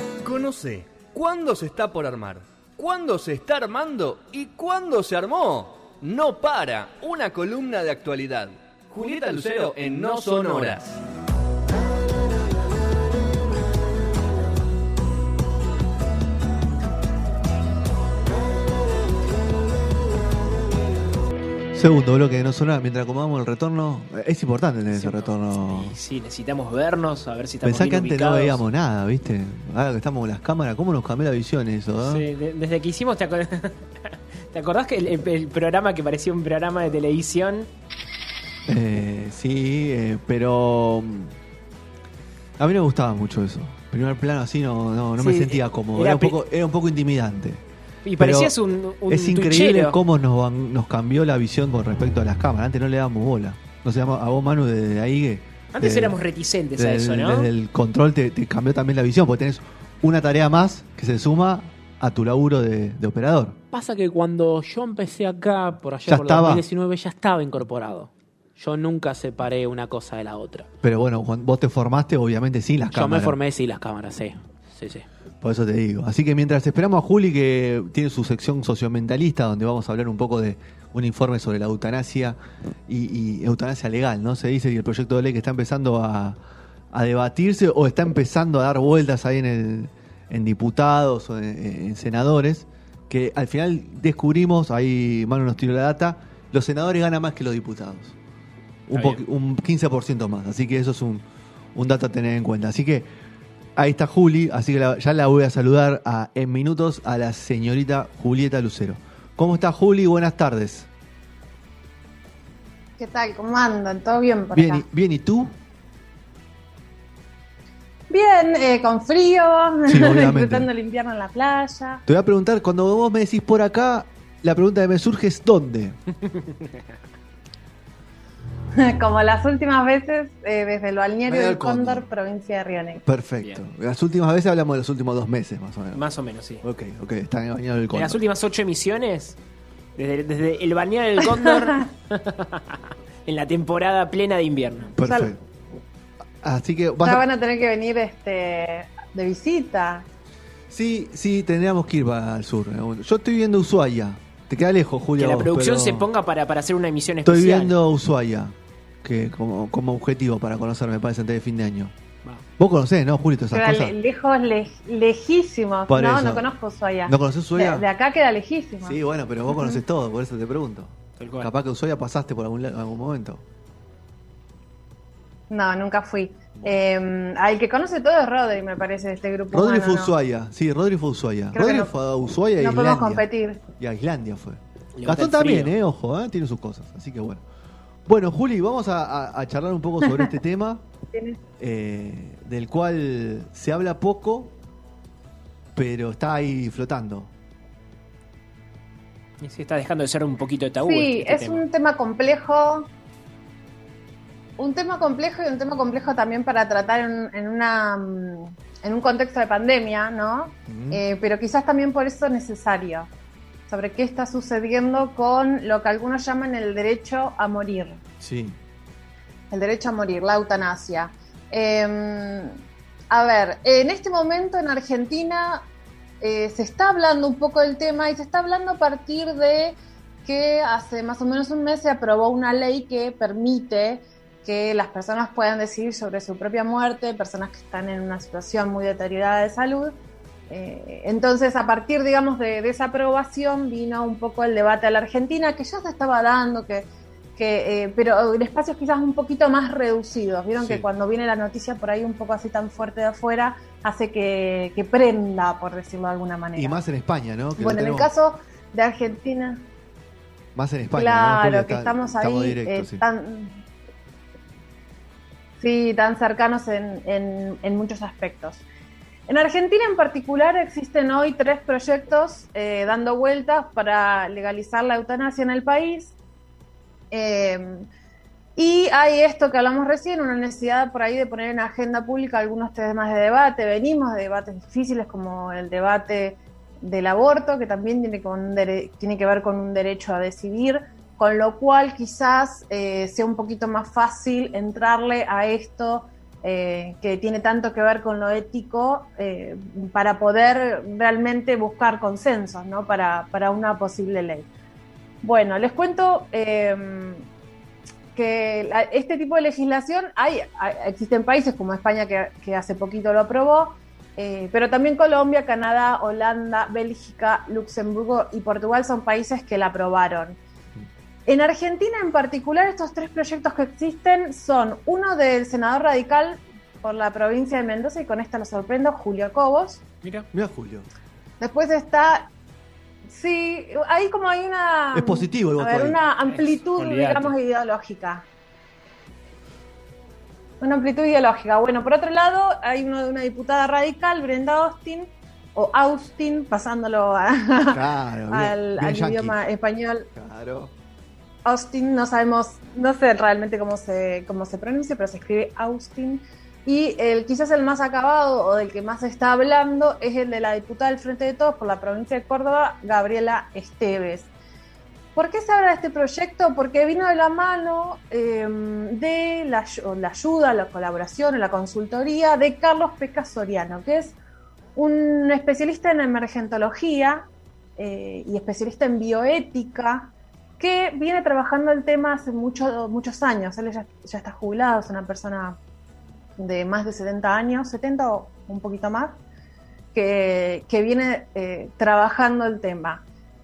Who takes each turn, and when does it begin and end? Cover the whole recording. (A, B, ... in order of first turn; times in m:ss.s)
0:00.2-0:11.0 A
0:21.7-0:26.0 B
0:24.9-0:28.6 C
0:27.6-0:32.3 B
0:32.0-0:37.7 C
0:38.7-0:41.4 B
0:42.6-0:47.6 B
0:45.2-0:46.4 C
0:48.1-0:50.0 C
0:48.2-0:48.5 B
0:49.1-0:56.2 B
0:55.7-0:57.5 C
0:56.8-1:03.6 B
1:03.7-1:10.7 D
1:06.0-1:06.6 B
1:10.8-1:13.4 B
1:12.9-1:15.1 D
1:15.4-1:26.4 B
1:26.9-1:38.2 B
1:38.9-1:41.2 B
1:38.9-1:39.2 C
1:41.8-1:43.1 B
1:43.8-1:50.9 B
1:53.0-1:54.8 E
1:54.5-1:55.6 B
1:58.1-2:02.0 E
1:59.9-2:00.7 B
2:02.1-2:06.0 B
2:06.4-2:06.8 C
2:08.8-2:13.0 E
2:11.3-2:12.1 B
2:13.0-2:16.0 B
2:15.9-2:16.6 C
2:16.6-2:18.2 B
2:17.9-2:19.4 C
2:20.0-2:24.9 C
2:25.0-2:25.4 B
2:25.0-2:25.3 E
2:26.4-2:27.2 B
2:27.0-2:30.1 E
2:30.7-2:36.1 B
2:35.2-2:37.7 C
2:37.2-2:41.9 B
2:42.6-2:44.0 B
2:43.5-2:49.0 E
2:45.9-2:46.5 B
2:47.1-2:47.9 B
2:48.8-2:53.4 B
2:49.5-2:49.8 E
2:51.2-2:51.5 C
2:55.5-3:00.1 E
2:59.5-3:03.3 B
3:01.5-3:01.9 E
3:02.6-3:03.6 E
3:03.8-3:07.4 B
3:05.0-3:05.7 C
3:08.1-3:10.8 B
3:10.0-3:10.3 E
3:11.1-3:11.4 E
3:11.6-3:14.5 B
3:15.8-3:17.3 B
3:19.4-3:21.6 C
3:20.8-3:22.9 E
3:24.6-3:33.1 E
3:30.7-3:31.0 B
3:33.7-3:38.0 E
3:38.2-3:38.6 B
3:39.5-3:45.6 E
3:46.2-4:00.0 E
4:00.5-4:16.8 E
4:10.6-4:10.8 B
4:16.6-4:18.1 B
4:17.6-4:19.7 E
4:20.6-4:23.0 B
4:21.0-4:23.6 E
4:25.6-4:28.6 E
4:29.3-4:36.2 E
4:37.1-4:37.9 E
4:38.6-5:04.5 E
5:05.2-5:07.2 E
5:08.2-5:20.4 E
5:21.3-5:29.8 E
5:30.0-5:30.3 C
5:30.3-5:30.9 B
5:31.4-5:32.3 E
5:33.1-5:38.2 E
5:34.9-5:36.0 B
5:36.3-5:37.3 C
5:40.6-5:50.1 E
5:47.7-5:49.4 B
5:50.2-5:50.7 B
5:51.4-6:04.3 E
6:05.2-6:14.2 E
6:14.8-6:17.3 E
6:17.8-6:25.6 E
6:26.4-6:29.2 E
6:29.9-6:33.0 E